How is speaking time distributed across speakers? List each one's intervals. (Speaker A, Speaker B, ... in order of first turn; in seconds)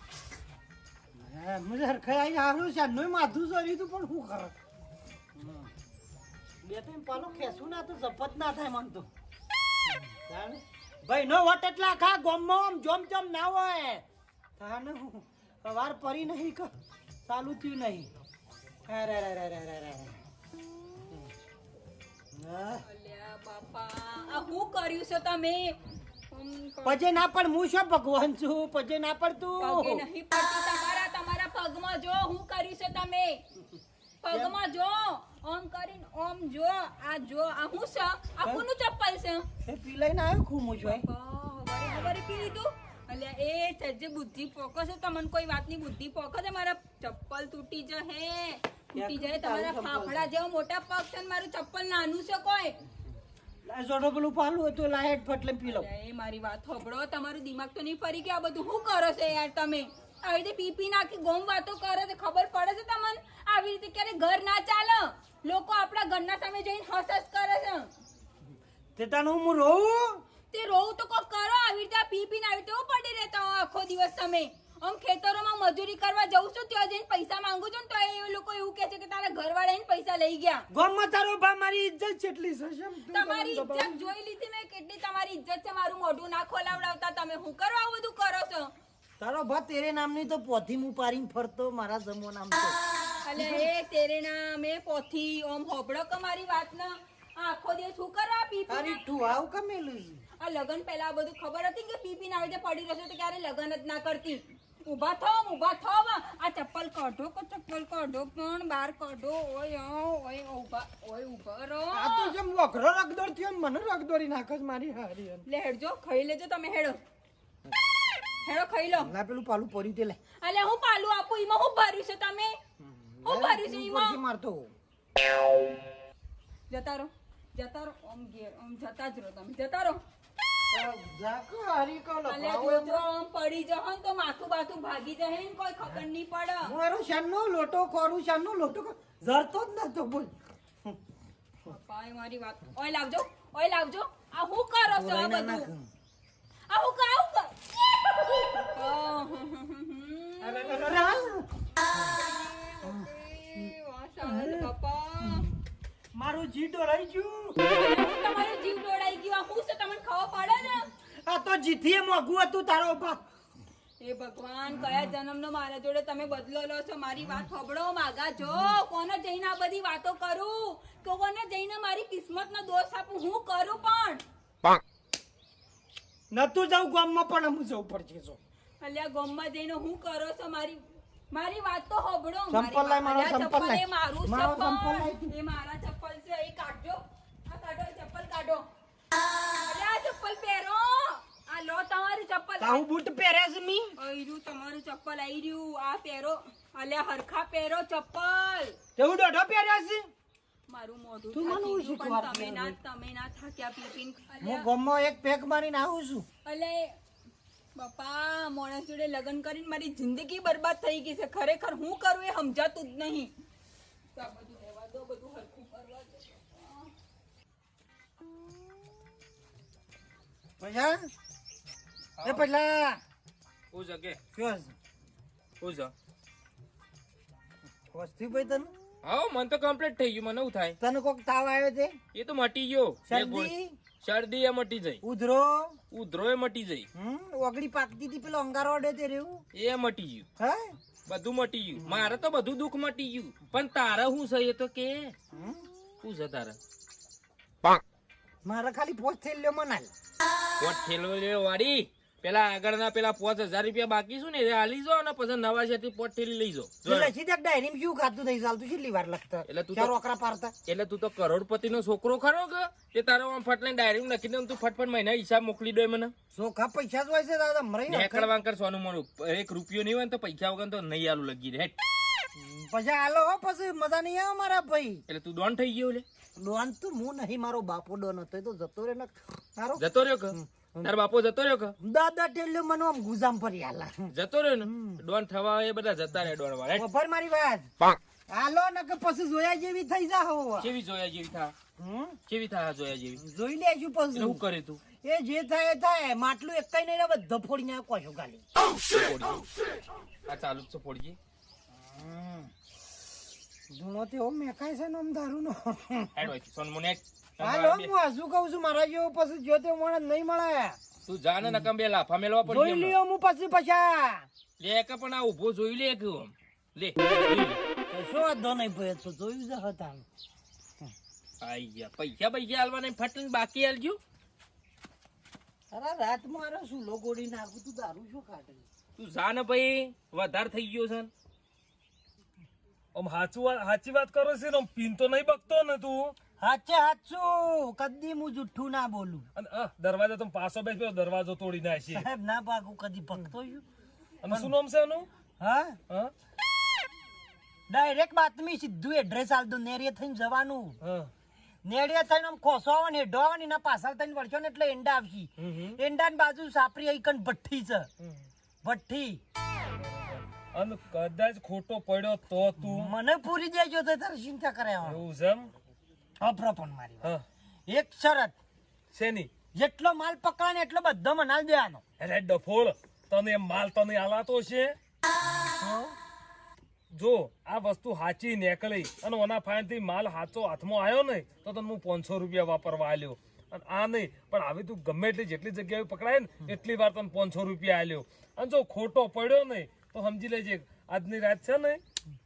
Speaker A: 1.2-4.5, 5.3-5.7, 6.6-9.1, 10.1-14.0, 14.6-16.7, 17.2-18.1, 18.9-20.2, 22.3-22.8, 26.8-30.0, 34.3-34.6, 39.6-41.0, 48.9-50.3, 53.6-55.9, 69.0-70.2, 80.7-84.1, 89.2-92.8, 93.3-93.7, 98.7-100.2, 111.9-115.4, 119.0-120.2, 122.8-124.7, 130.7-133.1, 136.6-140.3, 144.9-145.9, 150.4-151.5, 154.2-154.7, 156.1-157.6, 161.0-163.2, 164.7-165.1, 176.3-178.4, 182.5-185.3, 192.6-193.9, 198.9-200.1, 201.3-202.8, 204.4-206.2, 220.6-221.1, 222.2-223.0, 224.3-224.7, 227.9-228.7, 230.8-231.9, 233.1-233.8, 235.0-235.8, 236.9-239.4, 240.4-240.7, 245.3-245.6, 248.4-249.9, 256.8-260.5, 266.3-268.3, 272.3-275.0, 276.4-280.4, 281.8-284.1, 284.6-285.0, 286.7-287.7, 288.3-290.7, 291.8-292.2, 293.2-294.4, 294.9-298.4, 301.8-302.5, 303.7-306.3, 307.4-310.8, 311.4-311.7, 312.4-314.3, 317.9-320.0, 325.7-328.6, 336.4-339.3, 341.9-343.6, 344.3-344.5, 345.4-345.8, 347.7-350.8, 351.6-357.9, 358.6-359.2, 362.6-365.0, 366.2-367.1, 367.7-368.3, 369.5-371.8, 375.6-375.9
Speaker B: 22.8-25.8, 26.3-27.1, 29.6-33.4, 34.2-39.5, 40.8-52.7, 55.7-67.9, 70.5-80.6, 83.1-88.7, 93.2-99.0, 100.4-112.3, 115.5-117.0, 118.4-119.1, 120.4-122.5, 123.2-124.2, 126.7-130.0, 132.3-136.7, 141.7-145.7, 146.7-150.9, 152.0-155.5, 157.6-160.9, 164.0-174.2, 178.8-188.6, 189.5-192.8, 194.0-198.7, 200.7-204.7, 206.4-206.9, 207.7-213.3, 214.1-216.9
Speaker C: 222.2-222.5, 223.7-224.2, 225.6-225.9, 229.0-230.8, 232.1-235.0, 235.9-236.8, 239.5-240.2, 241.1-245.1, 246.0-246.6, 250.6-257.1, 259.4-259.9, 260.6-266.1, 267.9-271.7, 275.1-276.0, 279.8-281.7, 284.1-286.8, 290.6-291.5, 292.3-293.2, 294.1-294.8, 298.8-299.5, 300.3-301.2, 306.1-307.9, 311.1-312.9, 314.6-317.6, 321.4-324.0, 329.0-331.1
Speaker D: 332.9-336.2, 339.3-342.1, 344.2-345.1, 350.8-351.1, 355.4-355.8, 358.0-358.2, 359.8-362.9, 364.8-365.5, 368.9-369.3, 372.0-374.8, 376.9-391.8